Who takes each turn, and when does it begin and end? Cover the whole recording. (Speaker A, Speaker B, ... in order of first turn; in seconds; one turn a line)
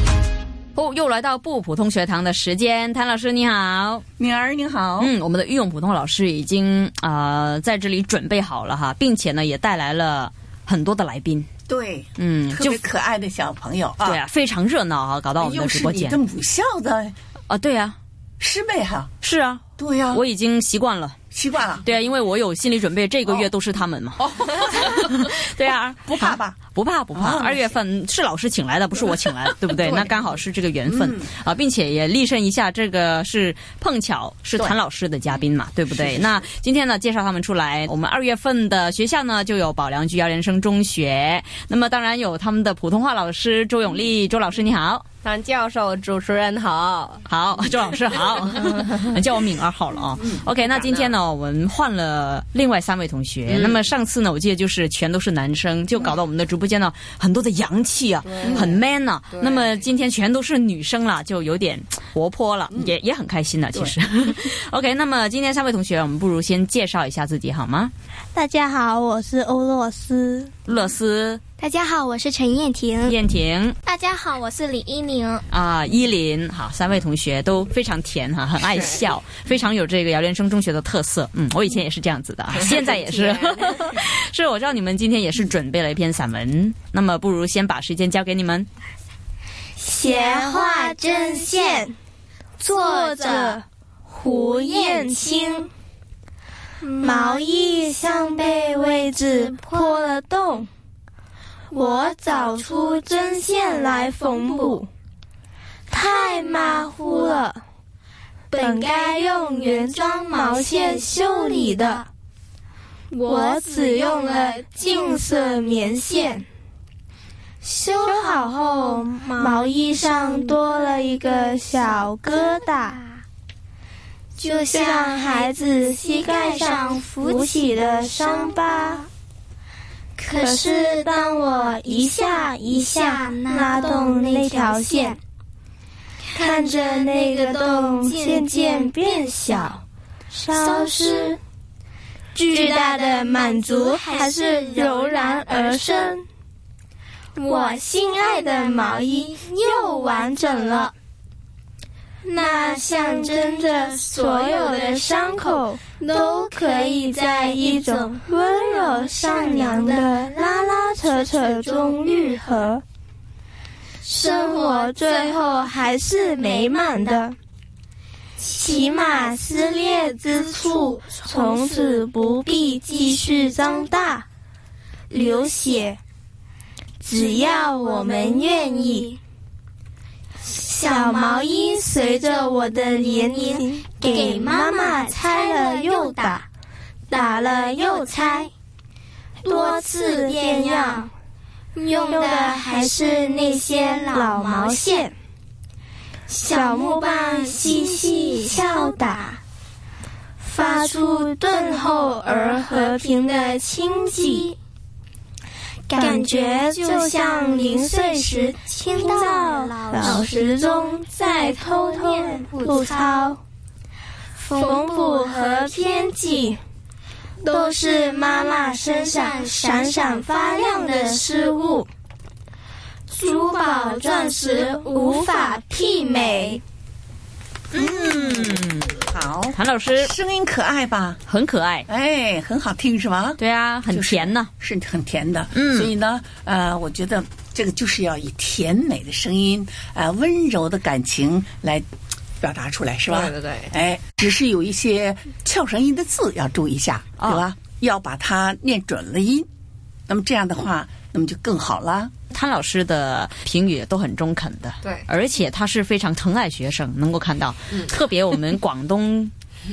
Speaker A: 0.7-4.0
Speaker B: 4.2-5.1
Speaker A: 5.0-11.5
Speaker B: 11.7-14.2
Speaker A: 12.2-12.8
Speaker A: 14.0-16.2
Speaker B: 15.4-17.1
Speaker A: 17.5-18.0
Speaker B: 18.4-19.1
Speaker A: 19.2-21.2
Speaker B: 19.8-20.2
Speaker B: 21.3-21.9
Speaker A: 21.8-45.0
Speaker B: 24.3-24.9
Speaker B: 26.1-26.6
Speaker B: 27.1-27.7
Speaker B: 29.8-30.2
Speaker B: 30.9-31.3
Speaker B: 35.9-36.4
Speaker C: 45.2-47.2
Speaker A: 47.3-67.9
Speaker C: 50.6-51.1
Speaker C: 58.2-59.9
Speaker B: 58.5-58.7
Speaker D: 68.3-70.5
Speaker A: 70.7-71.4
Speaker E: 71.6-73.2
Speaker A: 73.0-73.8
Speaker E: 73.9-75.4
Speaker A: 75.5-88.7
Speaker C: 78.6-79.0
Speaker C: 82.5-83.8
Speaker D: 89.8-91.9
Speaker E: 92.6-93.6
Speaker D: 92.6-95.7
Speaker E: 94.7-95.3
Speaker E: 96.8-97.2
Speaker D: 97.0-100.7
Speaker E: 99.5-99.8
Speaker D: 101.7-104.9
Speaker D: 105.9-107.6
Speaker D: 108.5-112.1
Speaker E: 113.1-113.5
Speaker D: 113.2-116.5
Speaker E: 117.6-119.5
Speaker D: 117.9-123.0
Speaker E: 124.4-125.4
Speaker D: 124.4-129.1
Speaker E: 126.2-128.9
Speaker E: 130.2-131.2
Speaker D: 130.3-135.2
Speaker E: 132.7-135.2
Speaker E: 136.3-138.9
Speaker D: 136.3-141.4
Speaker E: 140.5-141.3
Speaker D: 142.3-146.2
Speaker E: 142.5-145.3
Speaker D: 147.4-150.9
Speaker E: 147.4-147.6
Speaker D: 152.2-162.8
Speaker D: 164.0-167.3
Speaker D: 168.4-174.2
Speaker D: 175.1-176.0
Speaker D: 177.0-179.2
Speaker D: 180.4-186.5
Speaker E: 183.4-186.3
Speaker D: 187.1-188.5
Speaker D: 189.4-191.1
Speaker E: 189.5-190.3
Speaker E: 191.7-192.8
Speaker D: 192.0-195.1
Speaker E: 193.6-194.7
Speaker E: 196.3-198.7
Speaker D: 196.3-199.4
Speaker D: 200.4-204.5
Speaker E: 205.9-207.6
Speaker D: 205.9-213.4
Speaker E: 208.7-210.5
Speaker E: 211.8-213.2
Speaker E: 214.4-215.6
Speaker D: 214.5-216.6
Speaker D: 217.4-221.9
Speaker E: 218.9-220.1
Speaker D: 223.1-226.6
Speaker E: 224.1-224.8
Speaker A: 227.7-230.1
Speaker B: 229.1-231.2
Speaker A: 231.3-231.9
Speaker B: 231.9-241.8
Speaker A: 233.4-234.5
Speaker A: 235.5-235.9
Speaker B: 242.4-249.5
Speaker C: 243.1-243.7
Speaker A: 247.2-247.4
Speaker B: 250.1-252.1
Speaker A: 252.3-259.3